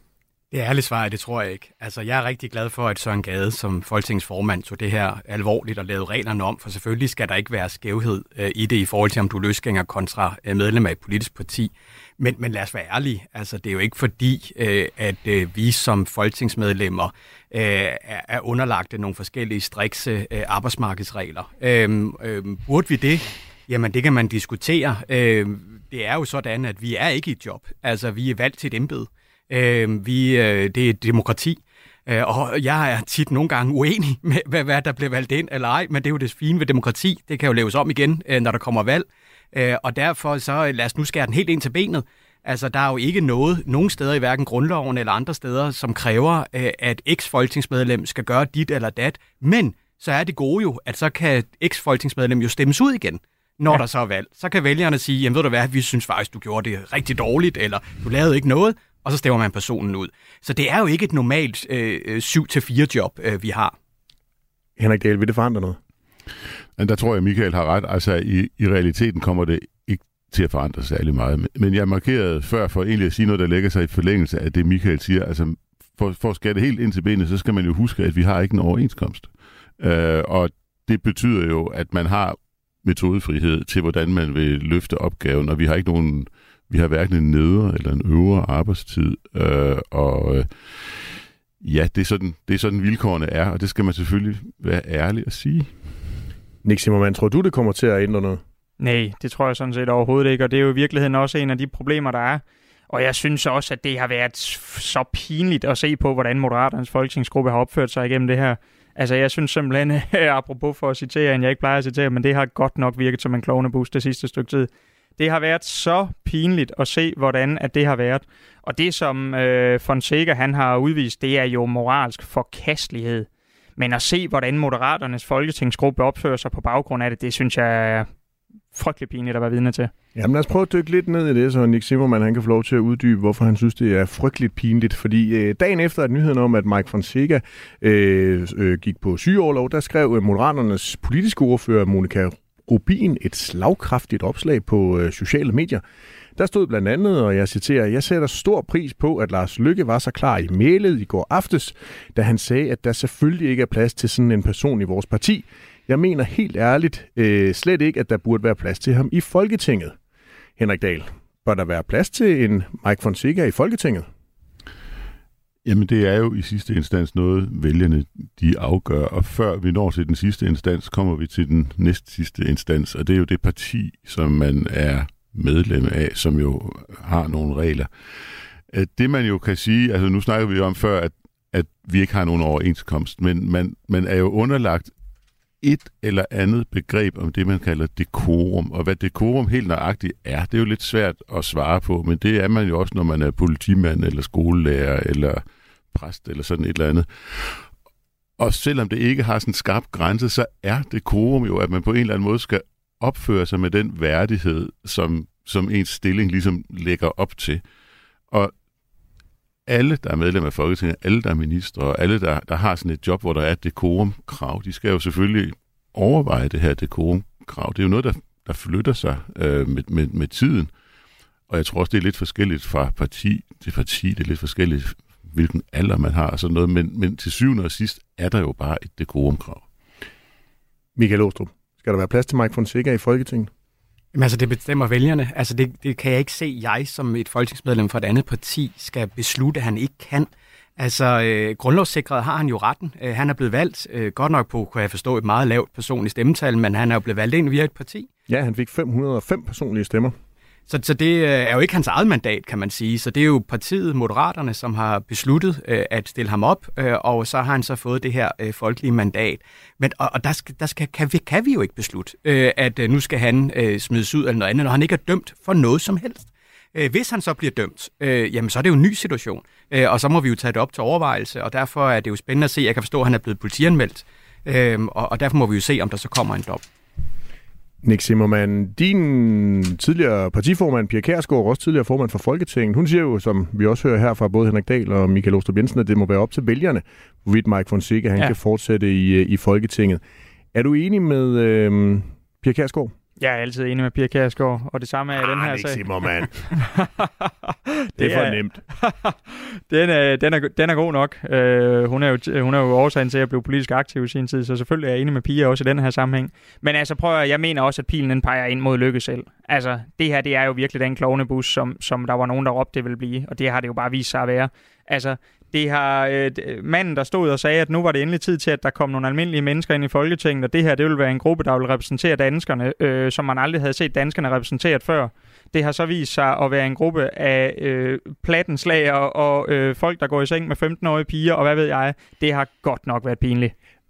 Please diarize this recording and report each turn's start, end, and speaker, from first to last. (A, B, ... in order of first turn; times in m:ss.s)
0:00.5-1:03.7 A
1:04.8-1:05.8 B
1:06.8-1:35.7 C
1:36.6-1:38.4 B
1:38.8-2:08.1 D
2:08.7-2:09.9 D
2:10.1-2:25.8 B
2:26.4-2:40.0 B
2:40.6-2:44.1 B
2:45.6-2:57.9 C
2:58.7-3:04.9 C
3:05.6-3:17.7 C
3:18.4-3:27.6 C
3:29.6-3:40.7 C
3:41.5-3:49.6 C
3:51.0-3:53.5 B
3:54.1-4:08.1 A
4:08.3-4:10.1 B
4:10.7-4:36.6 A
4:37.8-4:50.0 B
4:50.5-4:52.9 B
4:53.2-4:55.8 D
4:55.2-4:56.4 B
4:56.5-5:33.5 D
4:58.0-4:58.6 B